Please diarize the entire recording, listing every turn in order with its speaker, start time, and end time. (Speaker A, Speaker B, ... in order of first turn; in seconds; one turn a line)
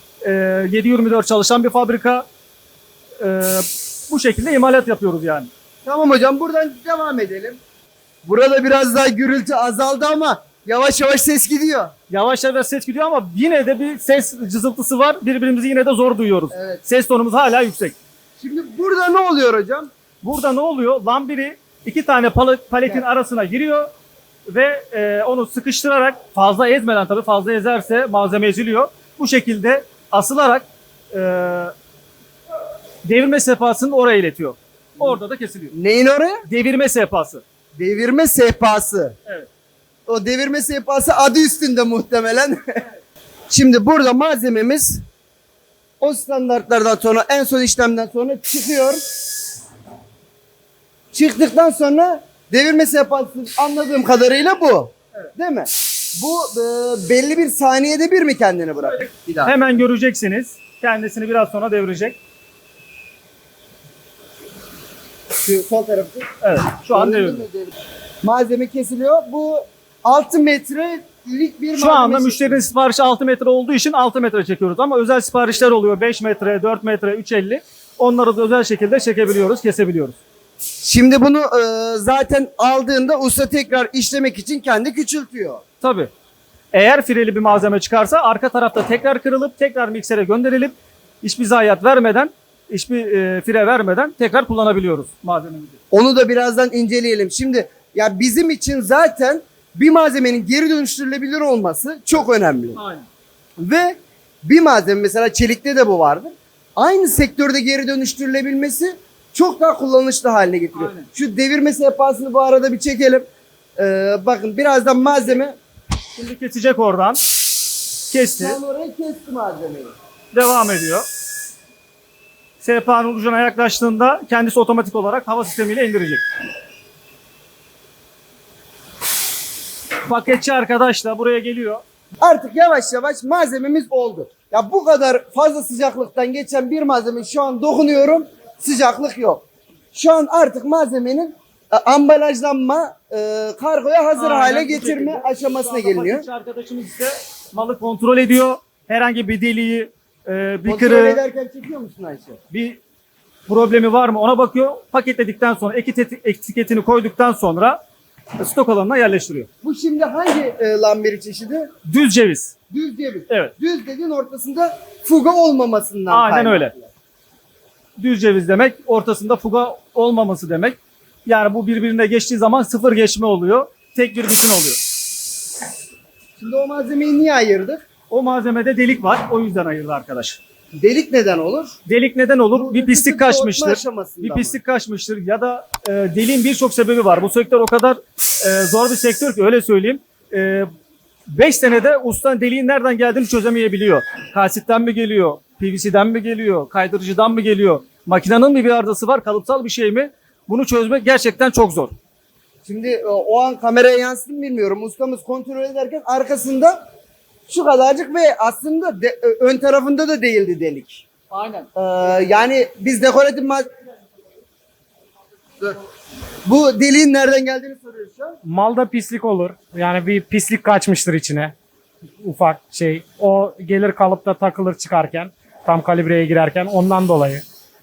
Speaker A: 0.2-2.2
Speaker A: 3.2-5.5
Speaker B: 5.8-7.6
Speaker B: 8.2-11.9
Speaker A: 12.1-17.9
Speaker B: 16.5-16.8
Speaker B: 18.4-19.9
Speaker A: 20.2-23.9
Speaker A: 24.5-31.7
Speaker A: 33.0-35.7
Speaker B: 35.7-36.4
Speaker A: 36.5-37.4
Speaker B: 37.8-39.1
Speaker B: 40.1-42.8
Speaker B: 43.5-45.0
Speaker B: 46.0-49.0
Speaker B: 51.1-59.6
Speaker A: 58.8-62.2
Speaker B: 65.4-66.3
Speaker A: 66.4-67.5
Speaker B: 66.9-72.6
Speaker A: 71.7-80.2
Speaker B: 80.8-85.6
Speaker A: 85.8-86.1
Speaker A: 86.7-95.8
Speaker B: 95.9-102.8
Speaker A: 102.8-103.0
Speaker B: 103.6-115.6
Speaker A: 110.7-111.1
Speaker A: 116.1-117.3
Speaker A: 118.1-118.6
Speaker B: 118.4-119.9
Speaker A: 120.3-121.0
Speaker A: 122.6-126.2
Speaker A: 130.0-131.8
Speaker B: 132.2-139.4
Speaker B: 139.9-146.2
Speaker A: 144.2-151.2
Speaker B: 150.6-152.4
Speaker A: 152.5-152.8
Speaker A: 153.5-157.8
Speaker A: 158.4-159.5
Speaker B: 159.6-161.7
Speaker A: 161.8-162.5
Speaker B: 162.7-166.9
Speaker A: 163.3-163.5
Speaker A: 166.1-166.7
Speaker A: 168.0-174.8
Speaker B: 176.4-177.8
Speaker A: 178.1-180.4
Speaker B: 180.7-181.8
Speaker A: 181.8-190.7
Speaker B: 182.5-184.6
Speaker A: 191.3-201.9
Speaker B: 202.6-206.8
Speaker B: 207.5-211.0
Speaker A: 211.3-211.7
Speaker B: 211.7-213.7
Speaker B: 216.4-218.3
Speaker C: 218.4-221.5
Speaker C: 222.2-227.4